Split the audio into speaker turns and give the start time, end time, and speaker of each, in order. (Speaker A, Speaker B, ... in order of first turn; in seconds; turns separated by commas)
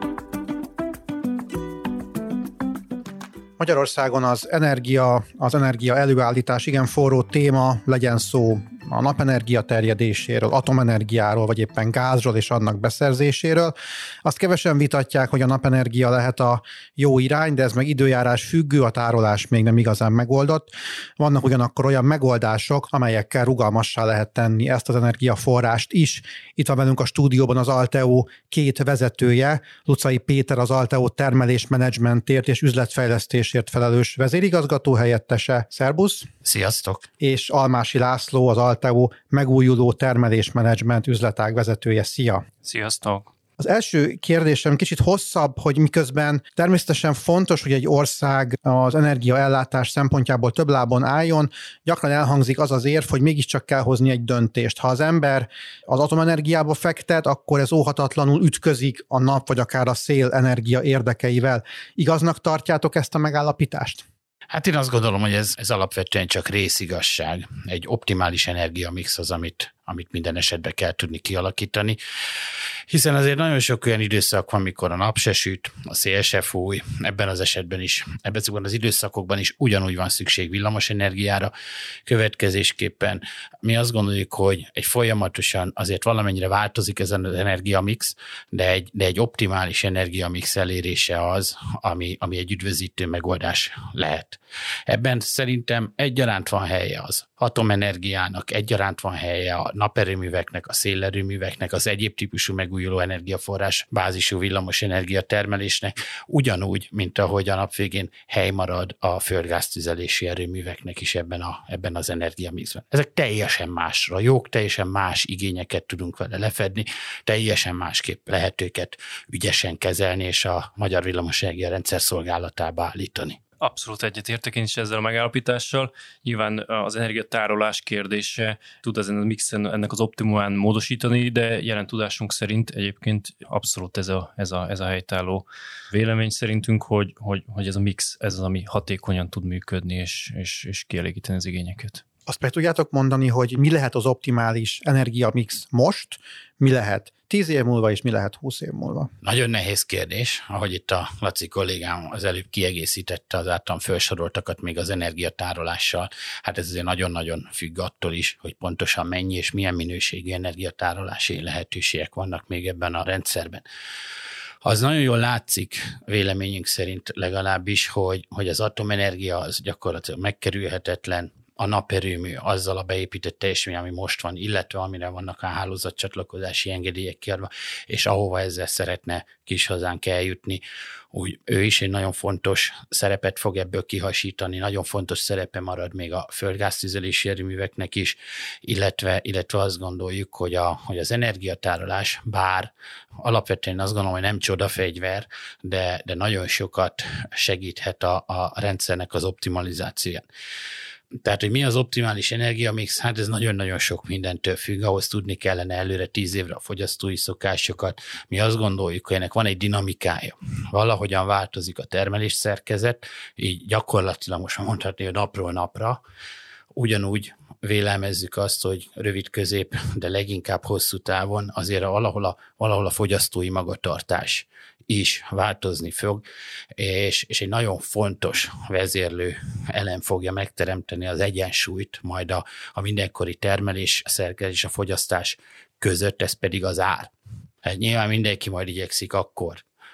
Speaker A: 3.6-36.3, Speaker B: 36.4-37.1, Speaker A: 37.2-42.4, Speaker C: 42.6-43.3, Speaker A: 43.6-64.0, Speaker B: 64.5-72.0, Speaker B: 72.9-81.5, Speaker B: 82.0-123.4, Speaker C: 123.6-142.0, Speaker A: 142.3-149.1, Speaker B: 149.2-163.6, Speaker B: 164.6-200.2, Speaker B: 201.2-216.0, Speaker B: 216.7-226.2, Speaker B: 226.8-237.1, Speaker B: 237.6-239.6